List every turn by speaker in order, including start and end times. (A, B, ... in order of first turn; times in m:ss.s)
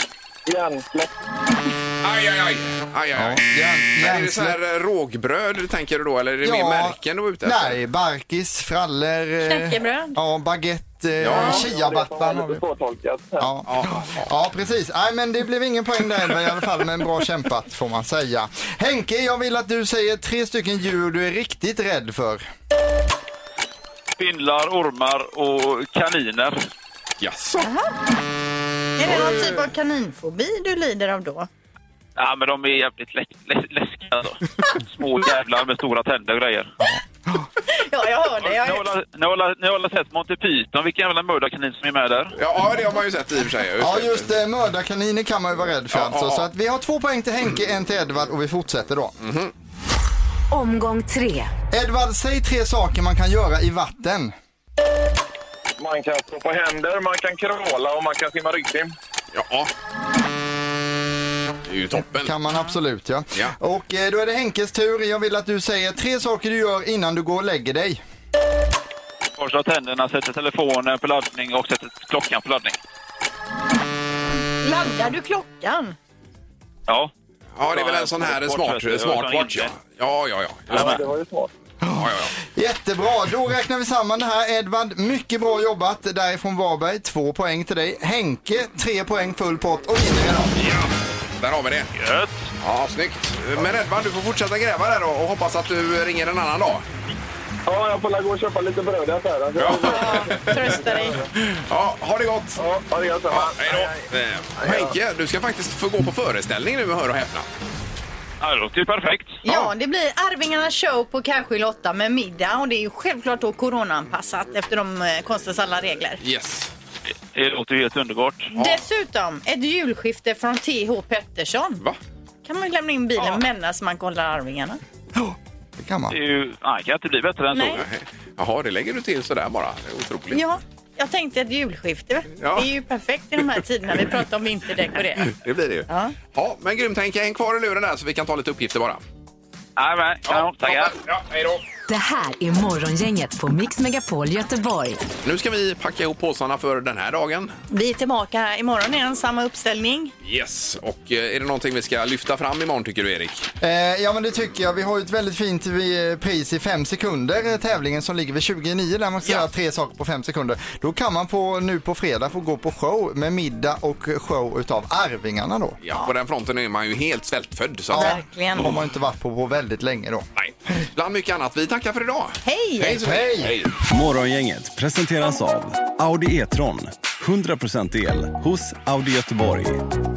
0:00.5-0:01.2 A
0:02.0-0:07.8 B
0:03.2-0:04.6 C
0:06.4-0:12.6 C
0:09.4-0:10.2 D
0:11.2-0:11.7 B
0:11.3-0:13.6 A
0:11.3-0:11.6 D
0:13.4-0:22.4 C
0:13.6-0:14.3 B
0:24.2-0:26.6 E
0:27.2-0:27.7 B
0:27.6-0:28.0 D
0:29.0-0:31.5 D
0:32.2-0:36.7 E
0:37.7-0:38.9 D
0:38.4-0:42.4 E
0:42.4-0:44.3 B
0:43.8-0:49.1 C
0:45.9-0:46.5 B
0:49.2-0:49.5 B
0:50.5-0:51.5 F
0:51.7-0:54.3 C
0:55.8-0:58.9 A
0:59.3-0:59.7 B
1:01.7-1:02.3 B
1:02.0-1:08.0 C
1:09.4-1:12.8 E
1:14.6-1:16.0 D
1:16.9-1:17.1 E
1:17.6-1:21.0 B
1:17.7-1:19.8 E
1:20.7-1:21.0 E
1:20.7-1:21.5 A
1:21.8-1:30.6 C
1:22.0-1:22.3 B
1:30.6-1:32.0 B
1:32.0-1:32.5 E
1:32.6-1:36.8 B
1:37.7-1:41.3 A
1:39.6-1:40.8 B
1:39.7-1:41.2 D
1:41.4-1:42.6 B
1:42.6-1:45.0 A
1:43.3-1:47.5 B
1:48.4-1:49.4 E
1:49.4-1:56.2 D
1:56.2-1:56.7 B
1:57.3-1:58.5 E
1:58.5-2:01.8 D
2:02.4-2:04.8 D
2:05.2-2:06.2 C
2:06.1-2:07.8 E
2:07.5-2:07.8 D
2:07.8-2:10.4 B
2:10.3-2:15.4 D
2:12.4-2:12.7 B
2:15.2-2:19.0 B
2:15.9-2:16.2 D
2:19.8-2:21.0 E
2:20.3-2:21.6 B
2:21.9-2:25.0 F
2:25.2-2:27.5 B
2:27.7-2:30.1 D
2:30.2-2:33.5 B
2:33.6-2:45.8 C
2:45.8-2:48.8 B
2:47.9-2:50.3 C
2:48.0-2:48.7 D
2:50.4-2:53.7 B
2:52.4-2:53.0 D
2:53.0-2:53.6 C
2:53.8-2:59.9 G